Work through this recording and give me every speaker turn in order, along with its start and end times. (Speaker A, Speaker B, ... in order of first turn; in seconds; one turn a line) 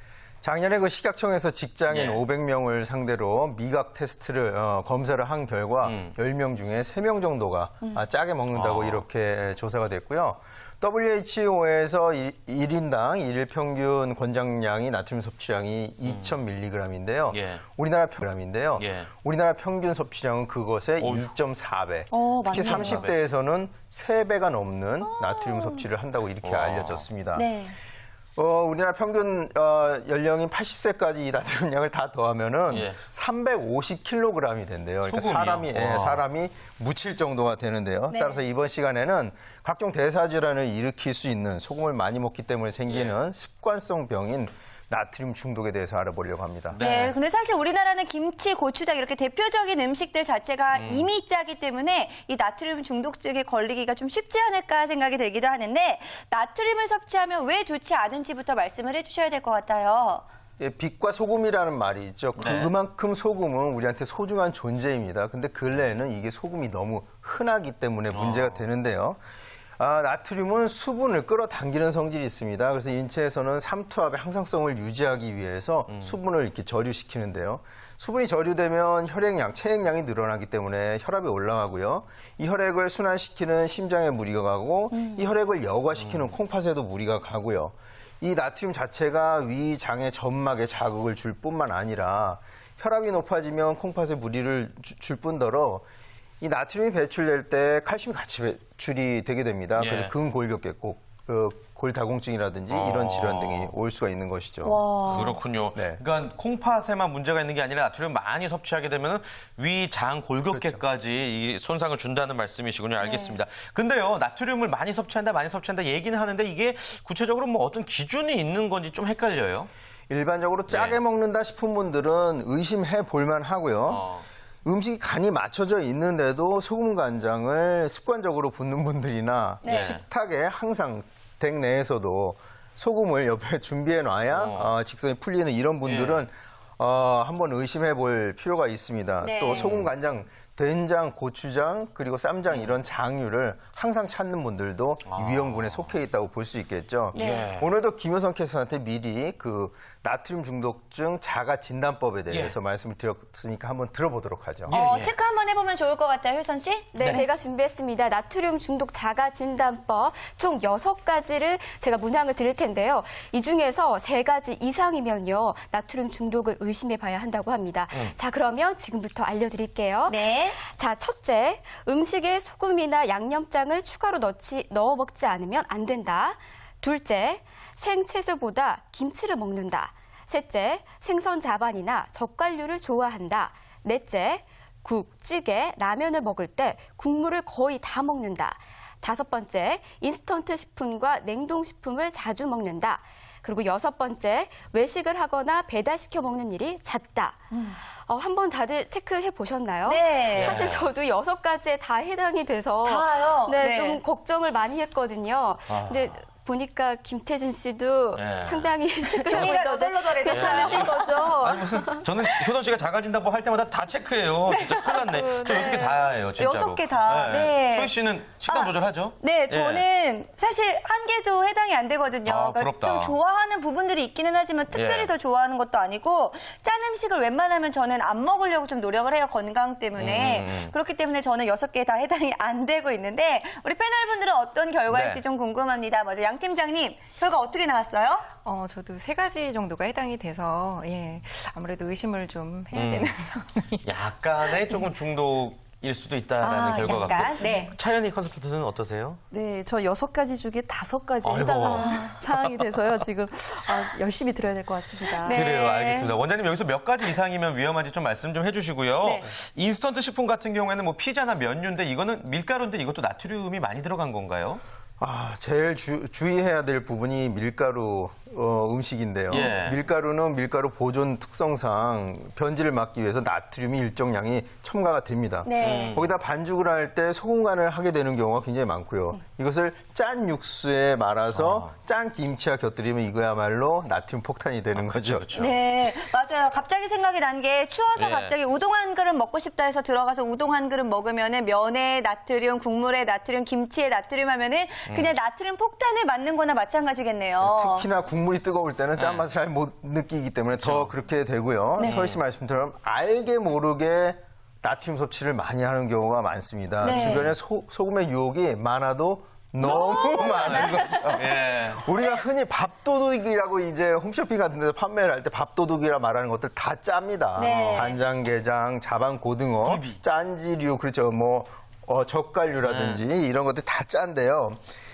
Speaker A: 0.4-27.5
Speaker B: 1.9-2.2
Speaker B: 5.8-6.1
Speaker B: 8.5-9.0
Speaker B: 16.0-16.4
Speaker B: 17.3-17.6
Speaker B: 18.8-19.1
Speaker B: 21.0-21.3
Speaker C: 22.1-23.0
Speaker B: 22.5-23.2
Speaker C: 25.1-25.8
Speaker B: 26.4-27.1
Speaker C: 27.4-27.8
Speaker A: 28.4-46.8
Speaker B: 32.7-33.0
Speaker B: 35.0-36.2
Speaker C: 38.1-38.4
Speaker B: 42.9-43.2
Speaker B: 46.7-47.2
Speaker C: 46.8-60.2
Speaker B: 50.7-51.1
Speaker A: 60.6-69.2
Speaker B: 62.4-62.7
Speaker B: 68.1-68.6
Speaker A: 69.8-95.8
Speaker B: 75.9-76.2
Speaker C: 84.9-85.2
Speaker B: 86.0-86.3
Speaker A: 96.4-104.9
Speaker B: 99.8-100.1
Speaker B: 102.7-103.7
Speaker D: 104.7-105.4
Speaker B: 105.0-119.7
Speaker A: 105.7-106.0
Speaker A: 110.5-110.8
Speaker A: 120.1-124.1
Speaker B: 120.7-121.0
Speaker B: 123.9-124.3
Speaker A: 124.7-154.8
Speaker C: 129.6-129.9
Speaker B: 129.7-130.0
Speaker B: 134.3-134.8
Speaker B: 135.8-136.2
Speaker C: 139.2-139.8
Speaker B: 145.1-145.9
Speaker C: 147.1-147.5
Speaker B: 147.2-147.7
Speaker B: 152.3-152.6
Speaker B: 154.7-155.1
Speaker C: 154.7-157.2
Speaker E: 156.9-212.1
Speaker B: 157.0-157.2
Speaker C: 170.1-170.6
Speaker C: 199.8-200.8
Speaker B: 200.3-200.8
Speaker C: 202.8-204.0
Speaker B: 205.7-206.1
Speaker B: 208.2-208.7
Speaker C: 209.1-211.3
Speaker B: 209.3-209.6
Speaker B: 210.3-219.9
Speaker C: 214.5-238.3
Speaker E: 215.0-215.7
Speaker B: 222.2-223.2
Speaker B: 224.7-225.1
Speaker B: 230.0-230.7
Speaker B: 234.9-235.2
Speaker F: 238.4-243.8
Speaker B: 242.7-243.2
Speaker B: 243.8-249.2
Speaker C: 246.4-247.7
Speaker D: 249.3-255.4
Speaker B: 251.2-253.1
Speaker C: 251.7-252.0
Speaker C: 255.1-256.1
Speaker B: 255.3-264.6
Speaker D: 259.0-259.3
Speaker A: 265.0-285.3
Speaker B: 269.3-269.8
Speaker C: 275.4-275.9
Speaker B: 275.6-276.1
Speaker B: 281.3-281.7
Speaker B: 284.8-285.6
Speaker C: 285.4-297.9
Speaker B: 288.0-288.4
Speaker B: 294.9-295.1
Speaker A: 297.4-324.6
Speaker B: 299.0-299.2
Speaker B: 300.6-300.9
Speaker B: 301.8-302.2
Speaker C: 306.8-307.2
Speaker B: 306.9-307.4
Speaker B: 309.6-311.9
Speaker C: 309.8-311.1
Speaker C: 317.4-318.0
Speaker B: 317.6-317.9
Speaker B: 319.6-320.0
Speaker B: 322.6-323.0